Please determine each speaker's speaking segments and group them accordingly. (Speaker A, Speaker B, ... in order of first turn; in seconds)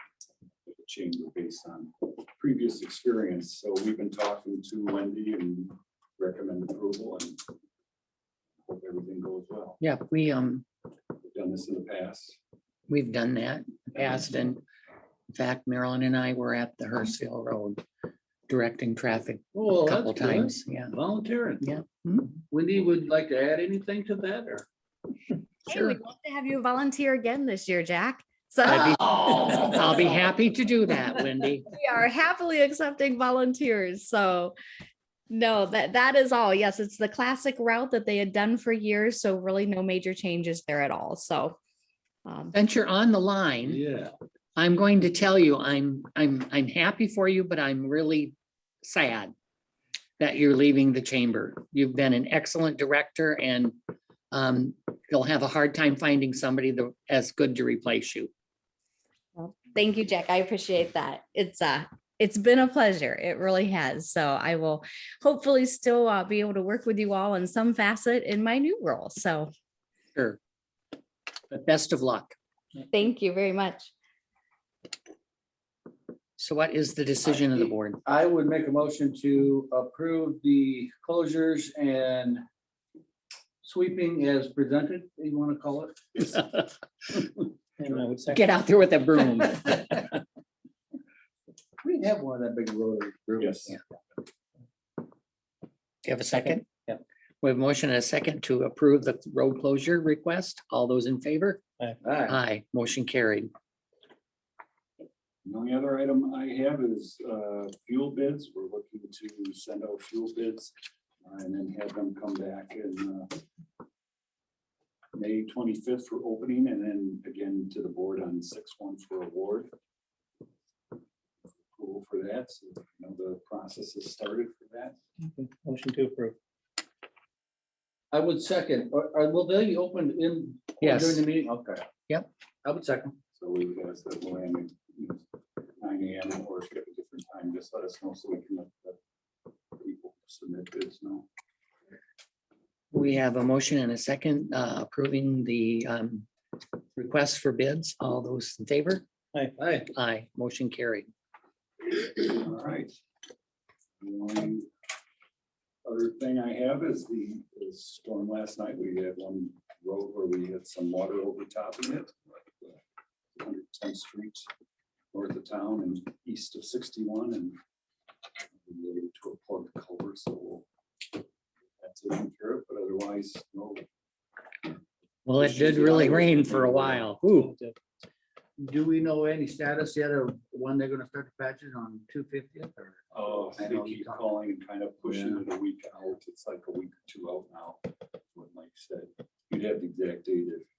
Speaker A: 0.7-7.4, 8.6-9.8, 11.2-12.4, 93.4-93.7, 105.4-113.4, 115.1-119.7, 121.7-125.0, 133.3-139.0, 139.7-141.3, 152.0-152.9, 154.0-154.7, 155.8-162.8, 163.3-164.5, 165.1-167.6, 168.6-170.7, 171.8-173.8, 175.4-177.0, 183.1-190.7
Speaker B: 9.8-10.6, 12.9-14.6, 15.3-17.8, 18.5-21.0, 21.6-22.4, 25.7-26.0, 28.6-31.7, 42.5-43.8, 44.5-49.3, 50.2-53.8, 54.3-58.3, 71.5-72.3, 76.4-78.0, 88.3-90.0, 96.0-96.7, 97.4-101.6, 102.2-103.5, 130.8-131.2, 142.9-146.3, 146.9-149.0, 149.9-151.1, 175.2-177.6
Speaker C: 19.5-21.7, 22.5-24.6, 43.6-44.1, 77.3-82.4, 83.6-86.3, 91.8-93.8, 102.0-102.4, 128.1-131.8, 132.6-133.2, 149.6-149.9, 178.6-184.3, 185.0-185.4
Speaker D: 25.7-29.8, 31.7-34.5, 35.3-41.6, 42.2-42.5, 59.4-69.5, 72.9-73.9
Speaker E: 87.8-88.5, 125.3-126.3, 149.3-149.7